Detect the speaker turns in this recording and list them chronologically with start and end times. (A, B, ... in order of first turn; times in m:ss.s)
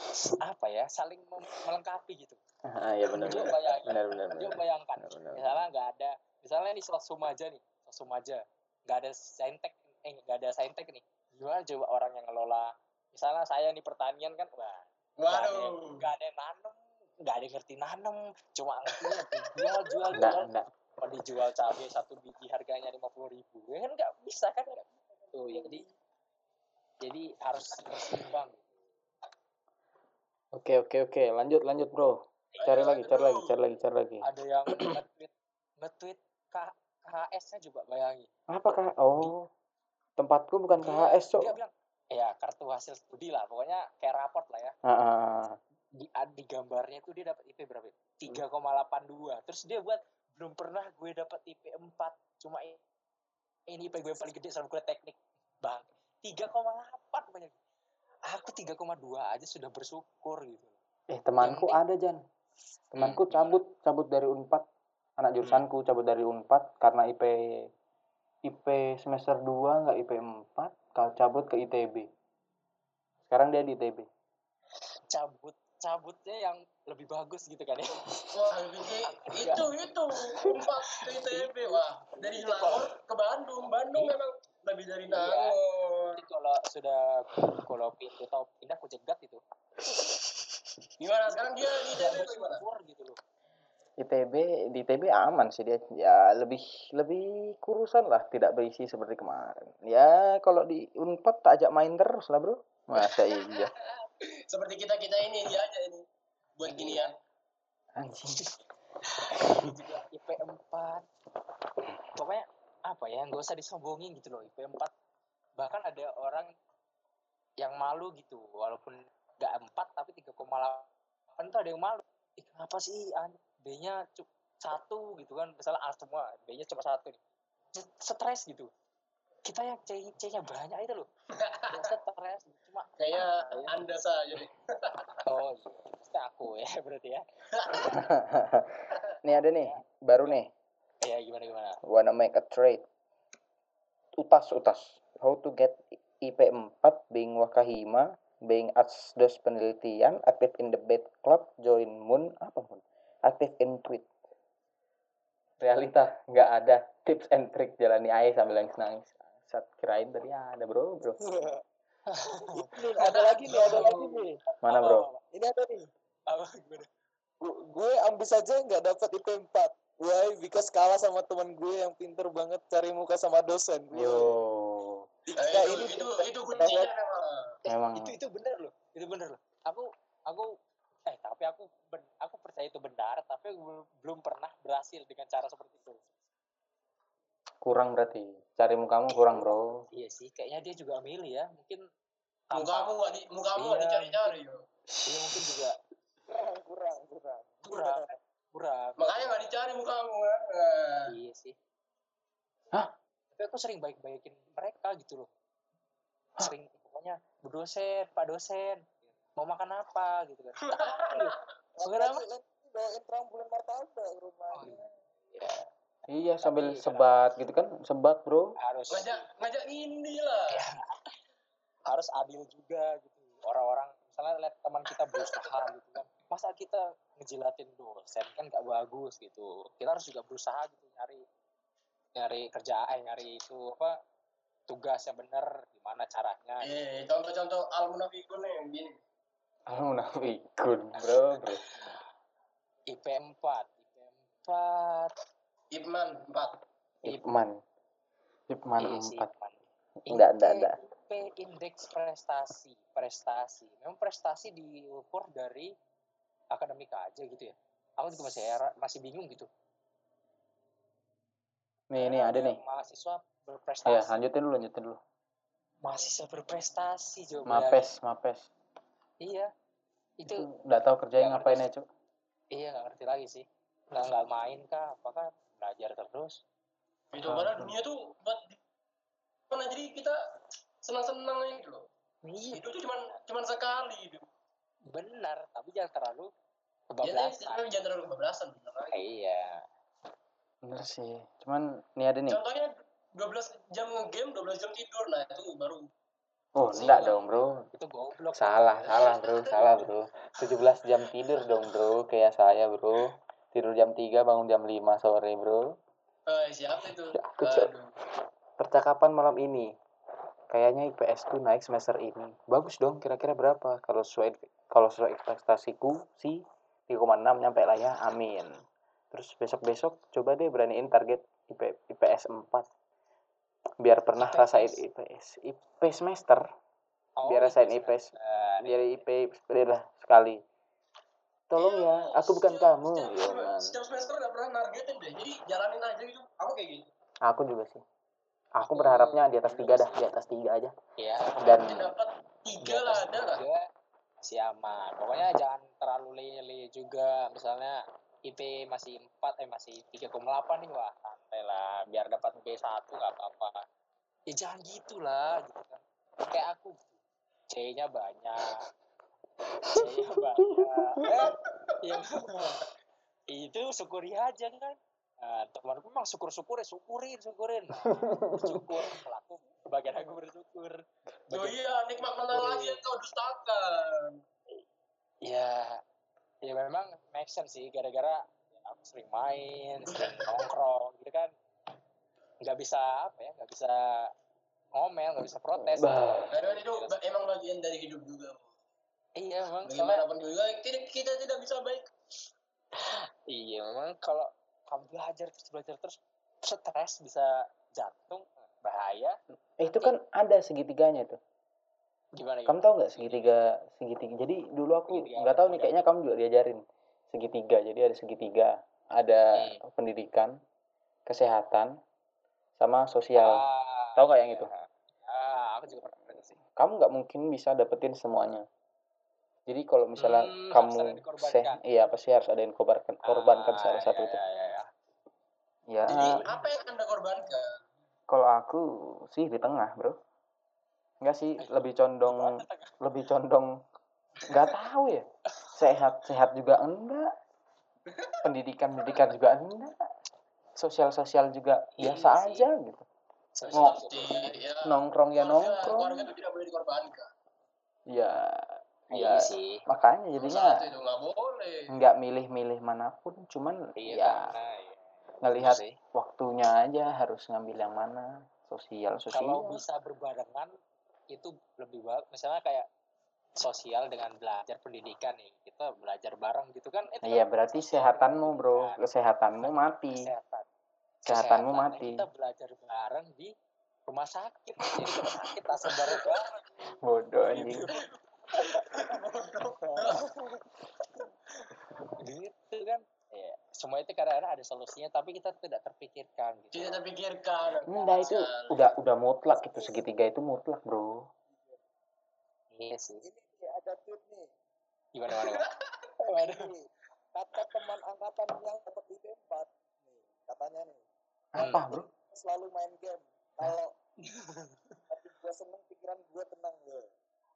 0:00.3-0:02.4 A
0:02.7-0:05.6 B
0:03.1-0:03.5 C
0:03.2-0:20.5 A
0:15.2-0:16.0 C
0:20.2-0:20.7 B
0:21.0-0:25.9 A
0:27.0-0:28.8 A
0:30.5-0:35.0 B
0:32.6-0:33.5 C
0:34.2-0:38.3 A
0:38.5-0:39.5 B
0:40.2-0:41.6 B
0:40.8-0:44.7 A
0:44.8-0:45.6 B
0:45.9-0:52.8 A
0:53.7-0:57.6 A
0:58.3-1:00.8 A
1:01.1-1:02.2 B
1:01.4-1:01.8 A
1:02.9-1:04.6 B
1:03.0-1:03.6 A
1:05.2-1:07.4 B
1:08.4-1:12.1 B
1:13.2-1:14.1 B
1:15.1-1:18.0 A
1:18.3-1:26.2 C
1:19.1-1:19.7 A
1:21.0-1:22.9 A
1:25.1-1:25.6 A
1:26.2-1:29.4 A
1:29.8-1:30.8 B
1:31.0-1:32.6 C
1:32.0-1:33.2 A
1:34.0-1:43.7 B
1:43.0-1:46.0 C
1:46.6-1:47.1 C
1:46.7-1:47.1 A
1:48.0-1:48.4 B
1:49.2-1:51.0 A
1:49.4-1:49.7 B
1:52.1-1:54.9 A
1:55.6-1:56.5 A
1:57.6-2:00.9 A
2:01.4-2:07.2 A
2:07.7-2:08.7 A
2:09.4-2:11.1 A
2:11.4-2:11.9 C
2:11.7-2:13.7 A
2:13.0-2:15.1 C
2:15.2-2:17.2 A
2:17.5-2:18.0 C
2:17.8-2:20.5 B
2:19.5-2:20.3 A
2:21.0-2:21.8 A
2:21.8-2:22.8 B
2:24.2-2:34.1 B
2:35.6-2:41.2 B
2:41.2-2:41.6 D
2:42.1-2:42.8 A
2:42.6-2:44.4 D
2:43.0-2:44.2 C
2:43.6-2:43.9 A
2:44.6-2:45.1 B
2:44.6-2:45.2 A
2:45.3-2:45.9 D
2:46.3-2:46.9 A
2:47.4-2:54.3 D
2:53.9-2:55.0 B
2:55.4-2:57.4 C
2:55.4-2:56.9 D
2:57.7-2:58.2 B
2:57.7-3:00.5 A
3:01.1-3:06.0 A
3:07.6-3:09.8 B
3:09.9-3:11.8 A
3:12.5-3:14.3 A
3:12.5-3:14.6 C
3:15.0-3:15.8 A
3:15.2-3:15.6 B
3:16.3-3:18.1 D
3:17.6-3:19.4 A
3:19.0-3:21.1 C
3:21.1-3:21.6 A
3:23.3-3:25.3 A
3:26.4-3:32.2 A
3:30.7-3:31.4 C
3:31.8-3:34.9 D
3:34.5-3:34.8 A
3:35.3-3:35.7 A
3:36.1-3:38.5 B
3:36.4-3:37.2 A
3:38.6-3:39.2 A
3:38.9-3:40.6 C
3:40.5-3:41.0 A
3:41.9-3:51.2 A
3:52.2-3:54.0 A
3:54.7-3:56.7 A
3:56.6-3:59.0 C
3:59.7-4:01.6 B
4:01.0-4:02.0 A
4:02.9-4:05.1 A
4:05.7-4:06.6 C
4:07.0-4:07.6 B
4:08.5-4:09.3 B
4:08.8-4:15.7 A
4:10.1-4:10.8 B
4:16.5-4:19.5 A
4:21.9-4:22.6 B
4:22.0-4:24.2 A
4:23.8-4:25.0 B
4:25.8-4:27.9 A
4:27.5-4:28.5 B
4:29.2-4:29.5 A
4:30.2-4:30.5 A
4:30.2-4:31.8 B
4:31.2-4:31.6 A
4:32.5-4:36.4 A
4:37.1-4:38.6 C
4:37.2-4:37.7 B
4:39.5-4:40.2 C
4:40.8-4:41.9 C
4:42.2-4:42.6 A
4:42.5-4:44.3 C
4:44.9-4:46.3 A
4:46.9-4:47.8 A
4:47.0-4:49.0 C
4:48.9-4:49.6 A
4:50.6-4:52.4 B
4:52.3-4:55.9 C
4:56.6-4:57.7 B
4:56.7-4:57.5 C
4:57.7-4:59.0 A
4:58.3-5:05.6 B
4:58.8-4:59.8 C
5:06.3-5:07.9 C
5:07.2-5:07.7 B
5:08.6-5:09.7 B
5:10.5-5:18.5 B
5:19.1-5:22.7 B
5:23.8-5:26.4 B
5:24.2-5:24.8 A
5:27.2-5:29.0 A
5:27.2-5:30.4 B
5:31.5-5:33.8 B
5:31.6-5:36.9 C
5:37.2-5:37.8 B
5:38.6-5:40.7 B
5:38.6-5:40.0 A
5:41.0-5:41.7 A
5:41.4-5:41.9 B
5:41.5-5:43.4 C
5:42.6-5:43.7 A
5:44.2-5:53.6 A
5:54.3-5:57.0 A
5:57.5-5:58.6 A
5:59.7-6:02.6 A
6:00.5-6:01.2 B
6:03.3-6:11.6 A
6:07.8-6:08.7 B
6:11.3-6:14.2 C
6:12.3-6:12.8 A
6:15.2-6:15.8 A
6:16.4-6:21.3 A
6:19.9-6:20.4 C
6:22.4-6:24.1 A
6:24.8-6:27.0 A
6:25.6-6:26.3 B
6:26.3-6:28.4 C
6:29.2-6:30.0 A
6:29.6-6:31.9 C
6:32.8-6:39.2 A
6:39.6-6:41.2 B
6:42.2-6:43.3 A
6:42.5-6:50.3 B
6:44.9-6:45.8 A
6:51.1-6:51.7 B
6:52.6-6:53.4 B
6:53.2-6:56.4 A
6:54.0-6:54.5 B
6:56.6-6:58.4 B
6:59.5-7:04.2 B
7:00.0-7:01.6 A
7:03.0-7:04.7 A
7:05.7-7:06.2 B
7:05.9-7:07.5 C
7:06.1-7:06.6 A
7:08.1-7:10.0 B
7:11.0-7:13.6 B
7:11.4-7:12.8 A
7:14.3-7:17.1 B
7:17.9-7:18.1 C
7:18.2-7:19.8 B
7:20.6-7:22.8 B
7:21.8-7:22.5 A
7:23.4-7:24.4 A
7:23.4-7:27.1 C
7:24.6-7:26.1 B
7:27.9-7:30.6 B
7:28.9-7:29.6 A
7:30.2-7:31.8 C
7:31.7-7:34.3 B
7:33.8-7:35.8 A
7:35.2-7:39.6 B
7:39.1-7:40.5 A
7:41.1-7:42.7 A
7:43.4-7:48.8 A
7:47.0-7:50.1 B
7:49.4-7:50.5 A
7:51.0-7:52.0 B
7:51.0-7:53.3 A
7:53.9-7:56.3 A
7:55.7-7:56.2 C
7:56.8-7:57.7 B
7:57.3-7:57.8 A
7:58.3-8:00.0 C
7:58.4-7:58.9 A
7:59.6-8:00.4 A
8:02.0-8:06.8 A
8:06.5-8:08.7 C
8:07.7-8:11.0 B
8:07.7-8:08.1 A
8:09.4-8:09.8 D
8:11.3-8:11.6 D
8:12.5-8:13.0 A
8:13.0-8:14.3 D
8:14.9-8:15.5 A
8:15.1-8:15.5 C
8:16.0-8:16.4 A
8:16.1-8:20.8 D
8:21.3-8:21.9 B
8:21.4-8:21.6 A
8:21.5-8:23.7 D
8:24.0-8:24.7 A
8:24.9-8:26.9 D